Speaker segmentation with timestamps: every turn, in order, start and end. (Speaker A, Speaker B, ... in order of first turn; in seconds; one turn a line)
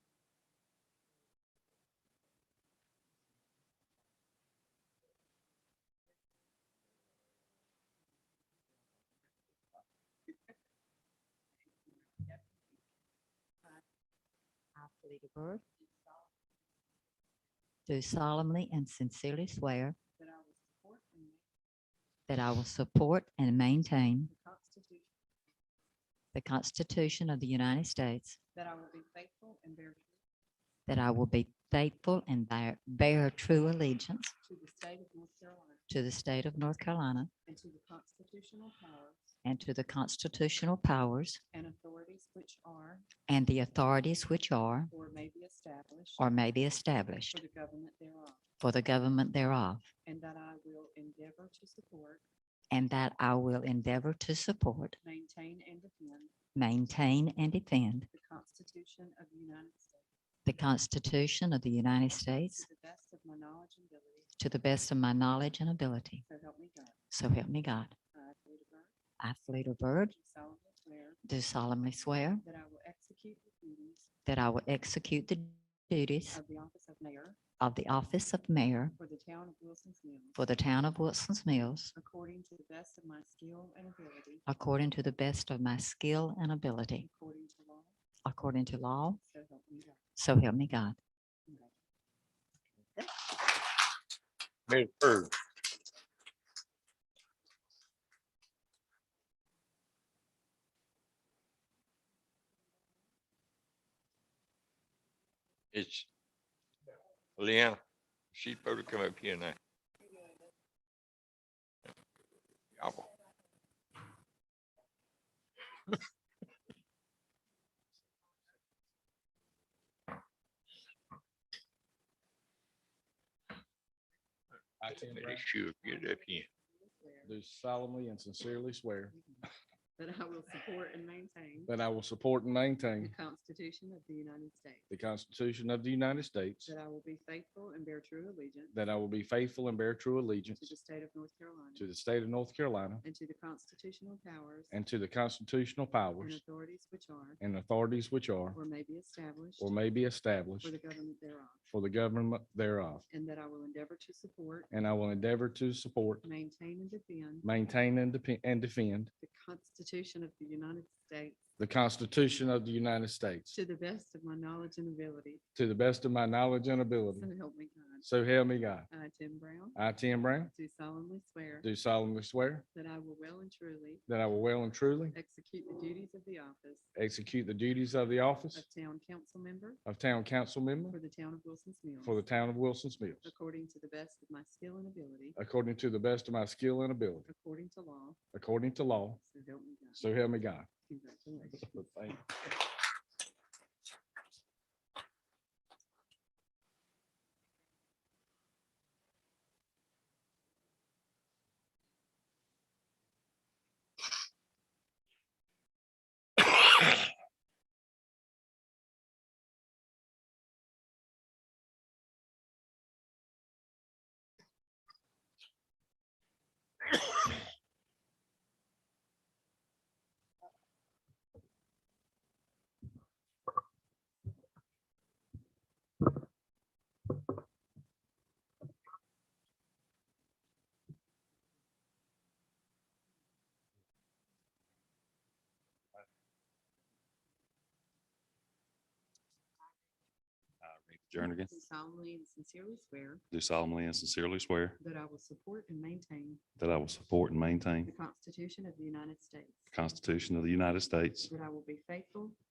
Speaker A: 14.7-15.6
Speaker A: 17.9-20.0
Speaker B: 20.2-21.4
Speaker A: 22.3-24.3
Speaker B: 24.3-25.1
Speaker A: 26.3-28.4
Speaker B: 28.5-30.2
Speaker A: 30.9-34.3
Speaker B: 34.4-35.8
Speaker A: 35.9-37.3
Speaker B: 37.5-39.3
Speaker A: 39.4-41.4
Speaker B: 41.5-43.1
Speaker A: 43.3-44.9
Speaker B: 44.9-46.3
Speaker A: 46.2-47.4
Speaker B: 47.3-48.4
Speaker A: 48.6-49.9
Speaker B: 50.0-52.2
Speaker A: 52.7-55.0
Speaker B: 55.0-56.3
Speaker A: 56.5-58.1
Speaker B: 58.1-60.0
Speaker A: 60.4-62.6
Speaker B: 62.1-64.3
Speaker A: 64.4-66.2
Speaker B: 66.2-67.0
Speaker A: 67.1-67.9
Speaker B: 68.1-68.9
Speaker A: 69.2-70.1
Speaker B: 70.0-71.2
Speaker A: 71.2-72.4
Speaker B: 72.4-74.1
Speaker A: 74.2-76.4
Speaker B: 76.3-77.4
Speaker A: 77.6-78.9
Speaker B: 79.0-80.4
Speaker A: 80.3-81.9
Speaker B: 81.9-84.4
Speaker A: 84.5-87.1
Speaker B: 87.0-87.9
Speaker A: 88.2-89.2
Speaker B: 89.2-90.0
Speaker A: 90.2-91.0
Speaker B: 91.5-91.7
Speaker C: 94.7-95.3
Speaker C: 105.7-106.1
Speaker C: 107.4-107.8
Speaker C: 108.3-109.6
Speaker C: 112.8-113.1
Speaker D: 124.8-125.5
Speaker C: 124.9-126.5
Speaker B: 125.8-127.3
Speaker D: 127.2-129.2
Speaker B: 129.1-129.4
Speaker B: 130.0-131.7
Speaker D: 131.7-133.1
Speaker B: 133.0-134.8
Speaker D: 134.9-136.7
Speaker B: 136.6-138.7
Speaker D: 138.7-140.7
Speaker B: 140.5-141.9
Speaker D: 141.8-143.0
Speaker B: 143.0-144.7
Speaker D: 144.7-146.4
Speaker B: 146.2-147.4
Speaker D: 147.4-148.6
Speaker B: 148.5-149.7
Speaker D: 149.6-150.7
Speaker B: 150.6-151.6
Speaker D: 151.7-153.0
Speaker B: 153.1-154.7
Speaker D: 154.7-156.2
Speaker B: 156.2-157.5
Speaker D: 157.4-159.1
Speaker B: 159.2-161.4
Speaker D: 161.6-163.6
Speaker B: 163.5-165.4
Speaker D: 165.5-167.3
Speaker B: 167.1-168.1
Speaker D: 168.0-168.9
Speaker B: 168.9-169.8
Speaker D: 169.8-170.5
Speaker B: 170.5-171.7
Speaker D: 171.6-172.6
Speaker B: 172.7-174.0
Speaker D: 174.1-175.2
Speaker B: 175.1-176.9
Speaker D: 176.9-178.7
Speaker B: 178.5-179.8
Speaker D: 179.8-181.0
Speaker B: 180.9-182.2
Speaker D: 182.0-183.3
Speaker B: 183.2-185.4
Speaker D: 185.4-187.3
Speaker B: 187.2-188.2
Speaker D: 188.3-189.2
Speaker B: 189.2-190.0
Speaker D: 190.0-190.7
Speaker B: 190.8-191.9
Speaker D: 191.6-192.2
Speaker E: 240.6-241.6
Speaker B: 241.2-243.2
Speaker E: 243.3-244.8
Speaker B: 244.8-246.4
Speaker E: 246.6-247.9
Speaker B: 247.8-249.7
Speaker E: 249.7-251.3
Speaker B: 251.3-252.4